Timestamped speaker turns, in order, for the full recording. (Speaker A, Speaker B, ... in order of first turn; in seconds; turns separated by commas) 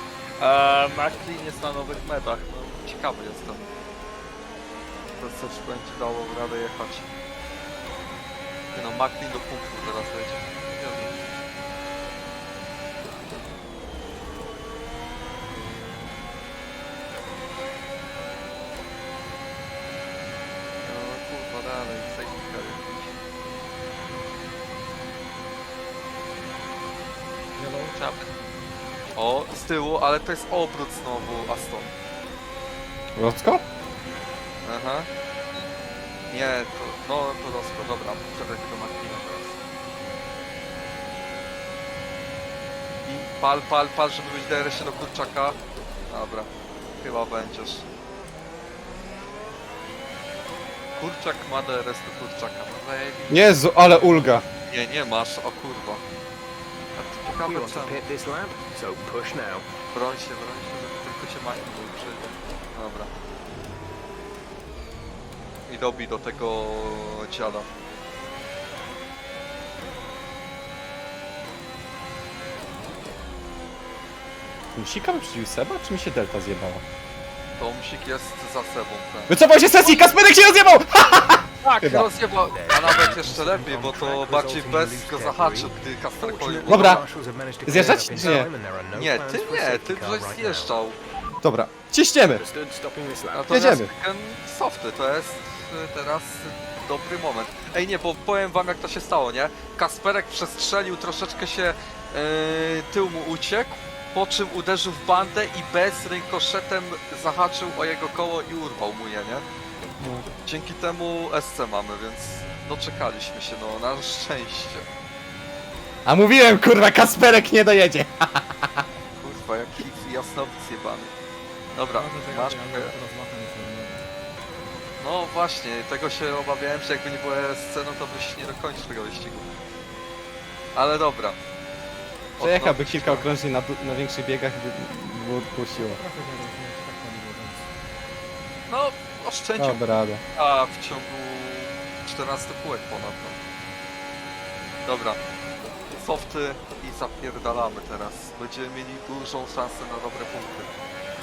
Speaker A: 0.4-3.7, Speaker A: 5.2-7.1, Speaker A: 8.7-11.1, Speaker A: 20.8-23.1, Speaker B: 27.6-28.0, Speaker A: 27.9-28.3, Speaker A: 29.2-31.9, Speaker C: 33.2-33.6, Speaker A: 34.6-35.1, Speaker A: 36.3-39.6, Speaker A: 43.0-45.6, Speaker A: 46.1-47.9, Speaker A: 51.0-56.0, Speaker C: 53.3-54.4, Speaker A: 57.0-58.0, Speaker D: 57.4-59.6, Speaker A: 59.9-63.1, Speaker A: 65.7-67.7, Speaker C: 74.8-76.8, Speaker A: 77.6-80.1, Speaker C: 79.3-82.1, Speaker A: 81.6-87.0, Speaker D: 82.4-90.8, Speaker C: 86.7-87.0, Speaker C: 87.7-88.5, Speaker A: 87.7-88.4, Speaker A: 88.9-91.0, Speaker C: 91.4-92.4, Speaker D: 92.3-93.6, Speaker A: 93.3-109.5, Speaker C: 93.5-93.9, Speaker C: 110.0-110.3, Speaker A: 110.4-114.9, Speaker C: 116.1-118.9, Speaker A: 119.2-121.1, Speaker A: 121.7-122.9, Speaker B: 121.9-124.1, Speaker A: 125.0-129.5, Speaker A: 130.7-131.4, Speaker A: 132.4-133.3, Speaker C: 132.4-136.0, Speaker B: 135.8-137.7, Speaker A: 138.7-139.8, Speaker C: 139.6-140.2, Speaker A: 140.3-143.4, Speaker A: 144.8-145.2, Speaker A: 145.9-150.7